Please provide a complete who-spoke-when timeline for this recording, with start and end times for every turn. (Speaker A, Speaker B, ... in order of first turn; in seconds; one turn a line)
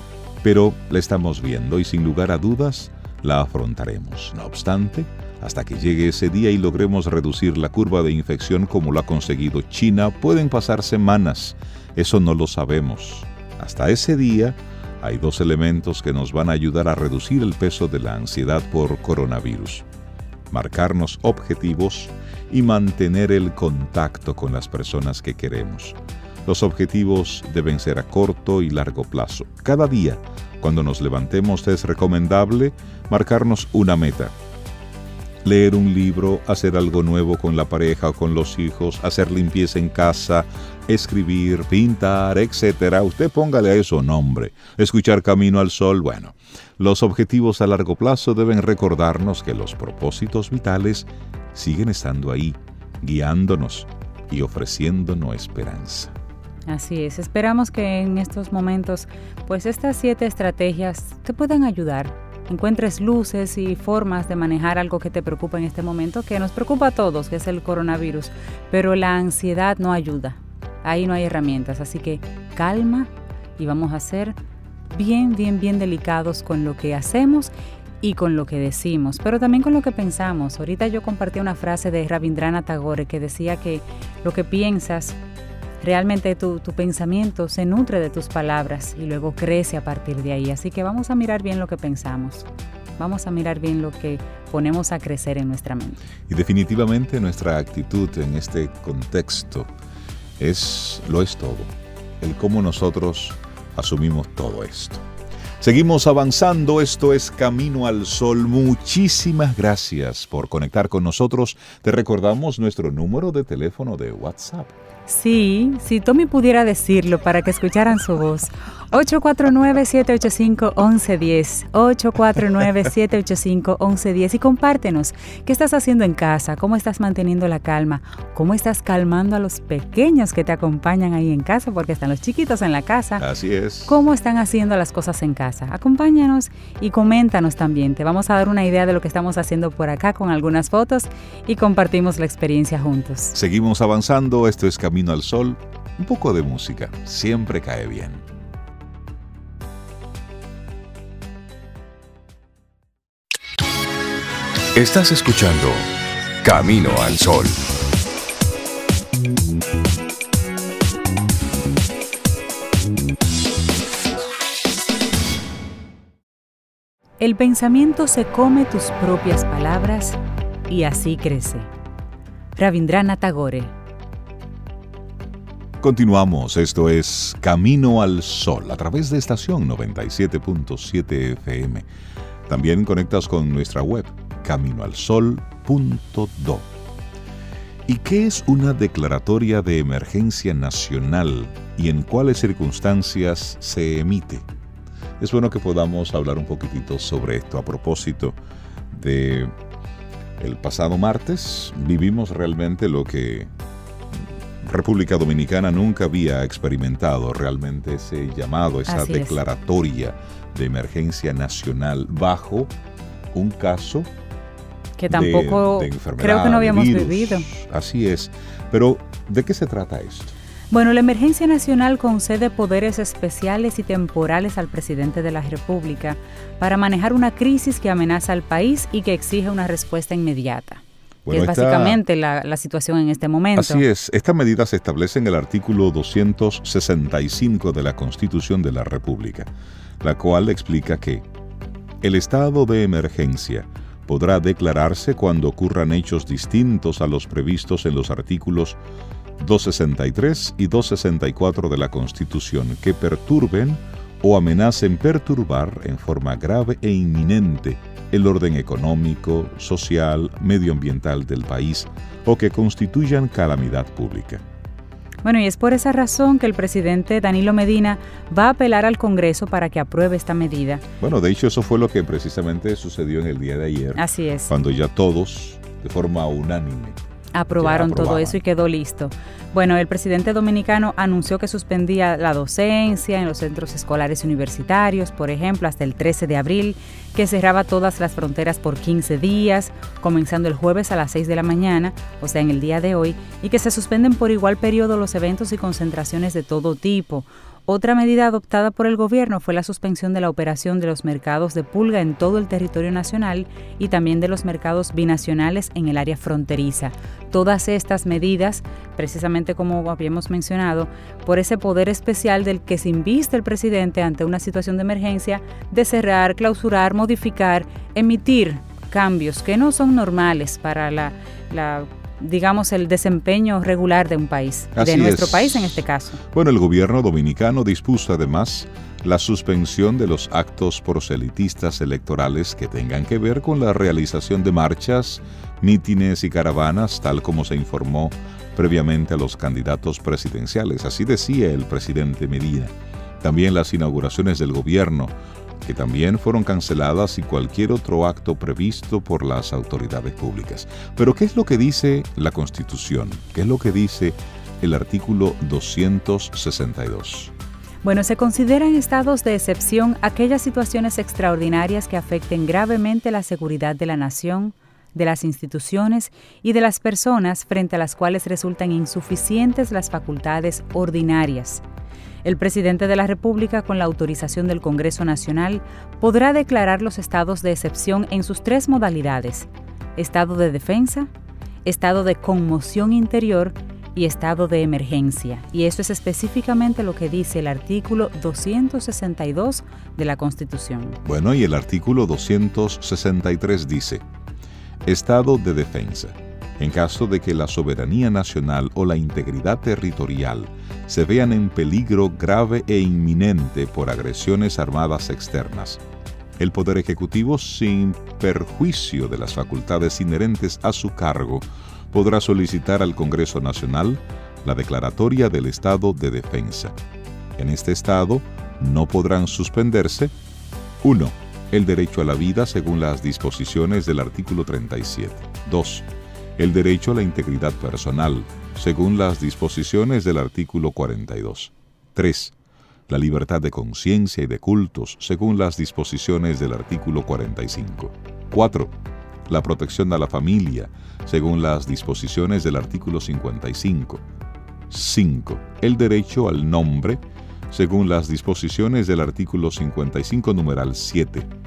Speaker A: 0.4-19.8
Speaker A: 20.5-34.3
Speaker A: 35.4-56.1
Speaker B: 56.7-74.4
Speaker B: 74.9-85.2
Speaker B: 85.8-96.0
Speaker A: 96.3-99.7
Speaker A: 100.4-105.0
Speaker A: 105.6-114.7
Speaker B: 115.1-133.2
Speaker A: 133.2-134.0
Speaker B: 133.8-143.3
Speaker A: 143.3-148.2
Speaker C: 154.7-155.9
Speaker C: 156.4-157.6
Speaker B: 167.2-171.7
Speaker B: 172.6-173.7
Speaker A: 175.8-181.9
Speaker A: 182.5-186.7
Speaker A: 187.9-194.5
Speaker A: 195.2-198.4
Speaker A: 198.9-199.5
Speaker A: 200.4-203.5
Speaker A: 204.2-212.7
Speaker B: 208.9-209.4
Speaker A: 213.3-214.1
Speaker B: 215.0-217.5
Speaker A: 215.1-220.3
Speaker B: 220.7-233.8
Speaker A: 231.2-232.0
Speaker A: 233.5-239.5
Speaker A: 240.0-241.2
Speaker A: 242.0-248.8
Speaker A: 249.4-264.4
Speaker B: 265.2-270.8
Speaker A: 271.0-277.0
Speaker B: 273.9-274.5
Speaker B: 277.3-326.2
Speaker A: 277.5-278.4
Speaker A: 324.7-357.3
Speaker B: 357.8-371.6
Speaker B: 372.2-381.1
Speaker B: 381.6-391.0
Speaker A: 391.0-394.0
Speaker A: 394.8-405.8
Speaker A: 406.4-416.8
Speaker A: 417.4-420.1
Speaker A: 420.8-432.3
Speaker A: 432.9-438.7
Speaker A: 439.3-444.0
Speaker A: 444.7-451.3